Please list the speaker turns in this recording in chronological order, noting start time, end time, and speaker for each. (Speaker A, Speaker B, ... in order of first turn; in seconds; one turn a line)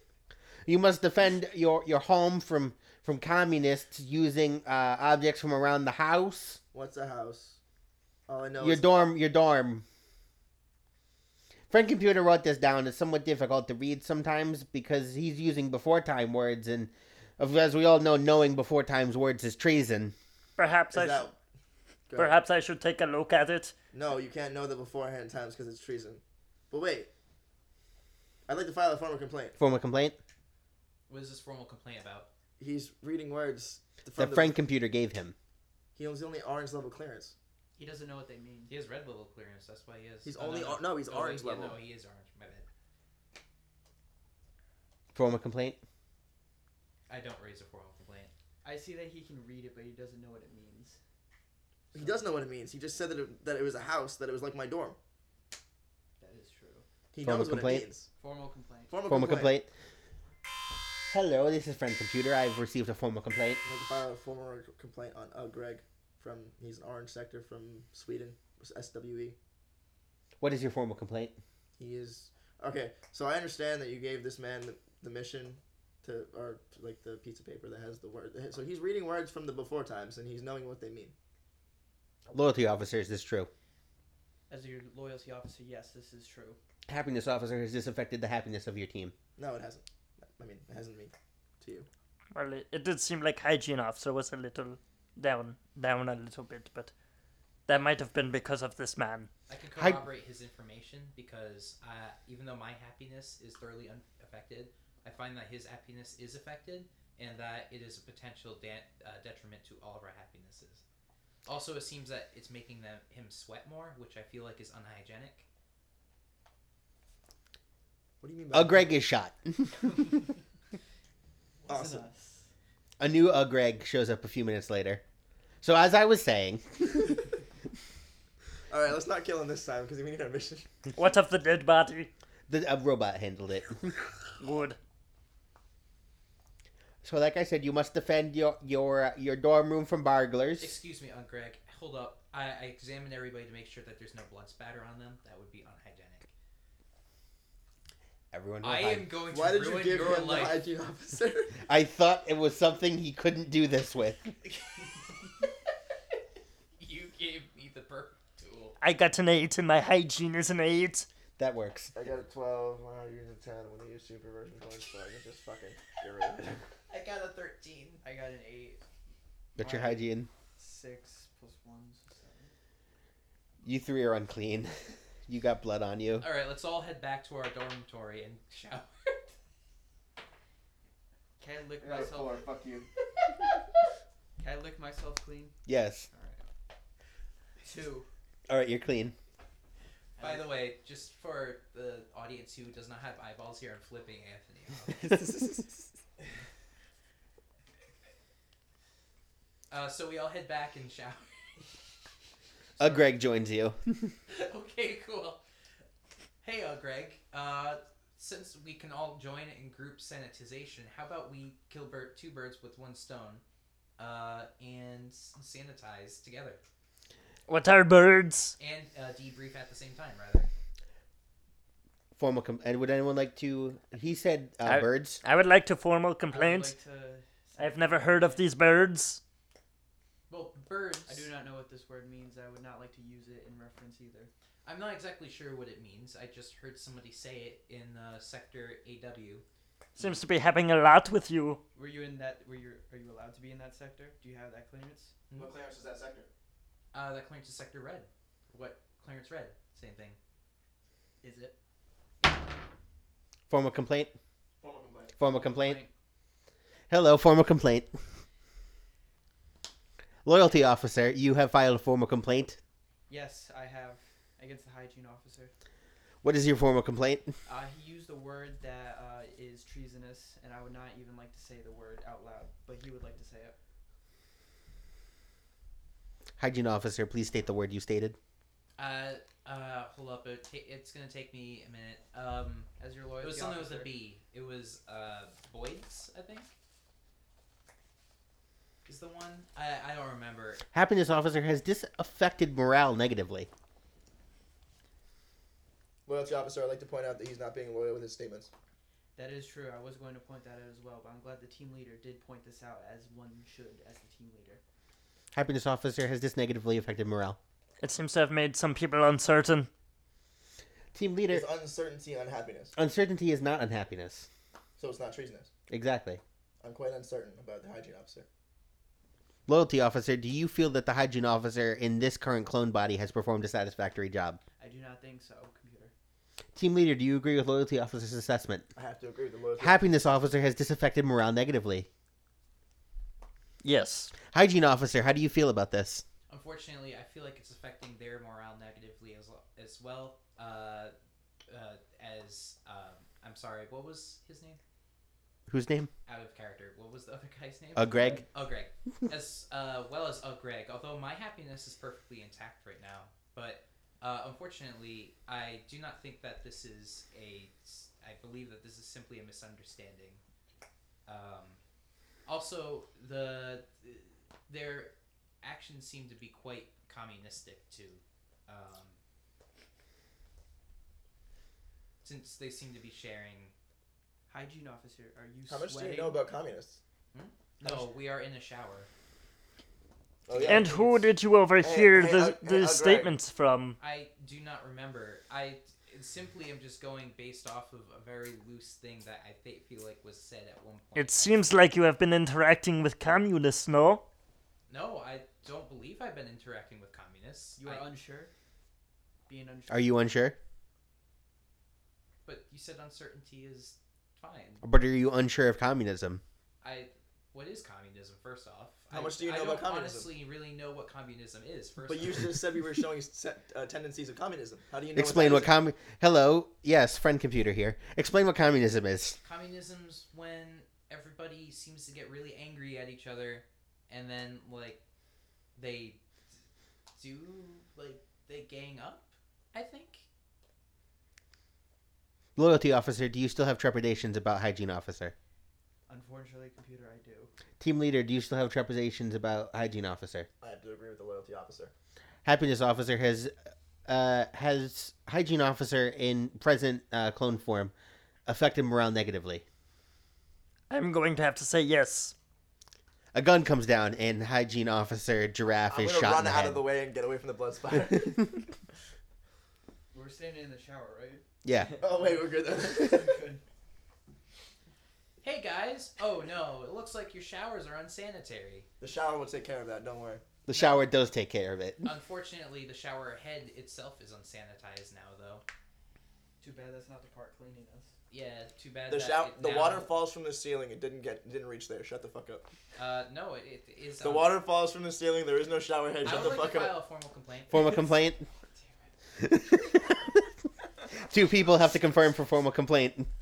Speaker A: 0.7-6.6
Speaker B: 6.7-7.6
Speaker B: 8.3-9.1
Speaker A: 8.6-9.8
Speaker A: 11.7-20.1
Speaker C: 20.6-21.2
Speaker B: 20.9-21.4
Speaker B: 22.1-22.3
Speaker C: 22.1-23.7
Speaker B: 23.9-27.1
Speaker B: 28.5-29.6
Speaker A: 29.6-30.2
Speaker D: 31.1-32.3
Speaker B: 32.6-34.5
Speaker A: 34.1-35.3
Speaker B: 36.0-37.3
Speaker E: 37.8-38.7
Speaker D: 38.7-42.7
Speaker B: 40.2-41.8
Speaker A: 45.1-45.8
Speaker D: 47.1-48.3
Speaker E: 48.6-51.0
Speaker E: 51.9-52.2
Speaker B: 51.9-55.0
Speaker E: 56.2-56.8
Speaker B: 57.1-58.1
Speaker A: 57.2-57.9
Speaker E: 58.2-59.0
Speaker B: 58.9-59.5
Speaker A: 59.1-59.7
Speaker A: 61.1-63.6
Speaker B: 63.6-69.4
Speaker A: 70.4-71.4
Speaker B: 71.8-81.1
Speaker A: 82.3-83.5
Speaker E: 84.5-86.6
Speaker A: 86.9-89.1
Speaker B: 89.4-91.9
Speaker C: 92.3-96.9
Speaker C: 97.7-99.3
Speaker D: 99.5-110.8
Speaker A: 99.8-100.0
Speaker D: 111.5-115.5
Speaker B: 118.2-118.9
Speaker A: 118.5-119.8
Speaker E: 121.7-122.5
Speaker B: 121.7-122.0
Speaker A: 123.0-125.0
Speaker A: 125.6-127.1
Speaker B: 128.7-130.7
Speaker C: 130.9-132.1
Speaker A: 132.5-134.0
Speaker C: 134.4-134.8
Speaker A: 137.0-140.8
Speaker D: 140.6-146.3
Speaker A: 148.3-149.1
Speaker D: 148.6-150.6
Speaker B: 149.3-151.6
Speaker A: 151.6-154.3
Speaker D: 156.8-158.8
Speaker C: 158.8-161.1
Speaker A: 161.4-161.9
Speaker B: 161.9-166.6
Speaker D: 166.9-168.0
Speaker E: 168.0-168.8
Speaker A: 169.6-170.3
Speaker E: 169.6-170.0
Speaker E: 170.6-172.5
Speaker A: 173.6-174.8
Speaker A: 175.3-176.2
Speaker D: 176.2-179.3
Speaker E: 181.4-182.4
Speaker B: 181.8-182.9
Speaker E: 184.4-185.6
Speaker A: 185.7-186.1
Speaker E: 186.1-186.4
Speaker E: 187.6-188.1
Speaker A: 188.5-189.1
Speaker E: 190.2-190.4
Speaker D: 190.2-195.1
Speaker D: 199.7-201.6
Speaker A: 202.8-204.1
Speaker D: 204.3-205.4
Speaker D: 206.4-213.4
Speaker D: 214.0-216.6
Speaker C: 217.5-218.6
Speaker D: 218.6-220.5
Speaker A: 222.2-225.2
Speaker C: 224.6-226.8
Speaker E: 226.3-228.5
Speaker C: 227.6-229.2
Speaker D: 230.3-231.3
Speaker E: 231.1-234.3
Speaker D: 234.6-239.4
Speaker C: 239.9-241.6
Speaker E: 241.7-245.2
Speaker B: 245.3-246.3
Speaker D: 246.9-250.2
Speaker E: 251.2-251.6
Speaker A: 253.5-254.1
Speaker B: 254.6-255.2
Speaker A: 255.2-255.8
Speaker E: 255.2-255.9
Speaker A: 256.9-257.9
Speaker A: 260.2-262.6
Speaker E: 263.1-265.5
Speaker A: 266.2-267.3
Speaker E: 267.4-273.6
Speaker A: 276.4-278.2
Speaker D: 278.8-286.5
Speaker E: 282.8-283.9
Speaker D: 288.9-290.6
Speaker A: 290.7-293.5
Speaker B: 296.1-298.5
Speaker E: 299.1-304.6
Speaker A: 305.3-307.4
Speaker C: 307.8-309.7
Speaker A: 310.9-311.5
Speaker B: 311.3-312.7
Speaker A: 312.7-314.3
Speaker B: 314.8-315.5
Speaker A: 315.7-316.2
Speaker B: 316.6-318.2
Speaker A: 319.5-324.4
Speaker E: 324.6-325.9
Speaker A: 326.5-328.7
Speaker B: 328.8-329.9
Speaker A: 329.6-331.9
Speaker C: 333.6-334.1
Speaker A: 334.3-336.0
Speaker D: 336.3-340.9
Speaker D: 341.5-344.6
Speaker A: 345.5-345.9
Speaker D: 346.1-360.2
Speaker A: 347.8-348.2
Speaker D: 361.1-361.6
Speaker D: 362.2-369.0
Speaker D: 372.0-373.5
Speaker E: 374.3-376.2
Speaker B: 375.5-376.8
Speaker D: 377.1-378.9
Speaker B: 380.3-380.7
Speaker D: 380.3-380.9
Speaker C: 380.4-383.8
Speaker B: 381.6-383.1
Speaker D: 383.8-391.5
Speaker C: 390.9-394.0
Speaker D: 394.7-397.9
Speaker E: 397.6-398.3
Speaker E: 399.3-400.2
Speaker A: 399.7-400.4
Speaker D: 402.2-404.6
Speaker A: 404.6-406.2
Speaker D: 406.6-412.2
Speaker B: 408.9-410.1
Speaker B: 411.8-415.5
Speaker A: 414.9-419.2
Speaker D: 419.2-424.8
Speaker D: 425.6-426.0
Speaker D: 426.9-430.1
Speaker A: 432.4-435.1
Speaker E: 435.9-437.3
Speaker A: 437.6-440.3
Speaker B: 440.4-441.7
Speaker A: 442.2-443.3
Speaker A: 443.9-447.7
Speaker A: 448.2-449.4
Speaker C: 450.7-452.1
Speaker A: 453.1-456.6
Speaker B: 455.7-458.2
Speaker E: 459.9-461.2
Speaker A: 461.4-461.8
Speaker B: 461.8-463.2
Speaker E: 461.8-463.4
Speaker D: 465.2-468.7
Speaker B: 468.8-470.2
Speaker A: 470.5-471.9
Speaker D: 470.5-470.9
Speaker D: 471.8-475.4
Speaker E: 476.4-477.9
Speaker D: 478.1-479.9
Speaker B: 478.9-482.4
Speaker D: 482.7-484.3
Speaker B: 484.0-486.8
Speaker D: 486.0-487.7
Speaker A: 487.5-488.2
Speaker E: 487.6-488.9
Speaker A: 489.2-490.1
Speaker A: 491.0-493.1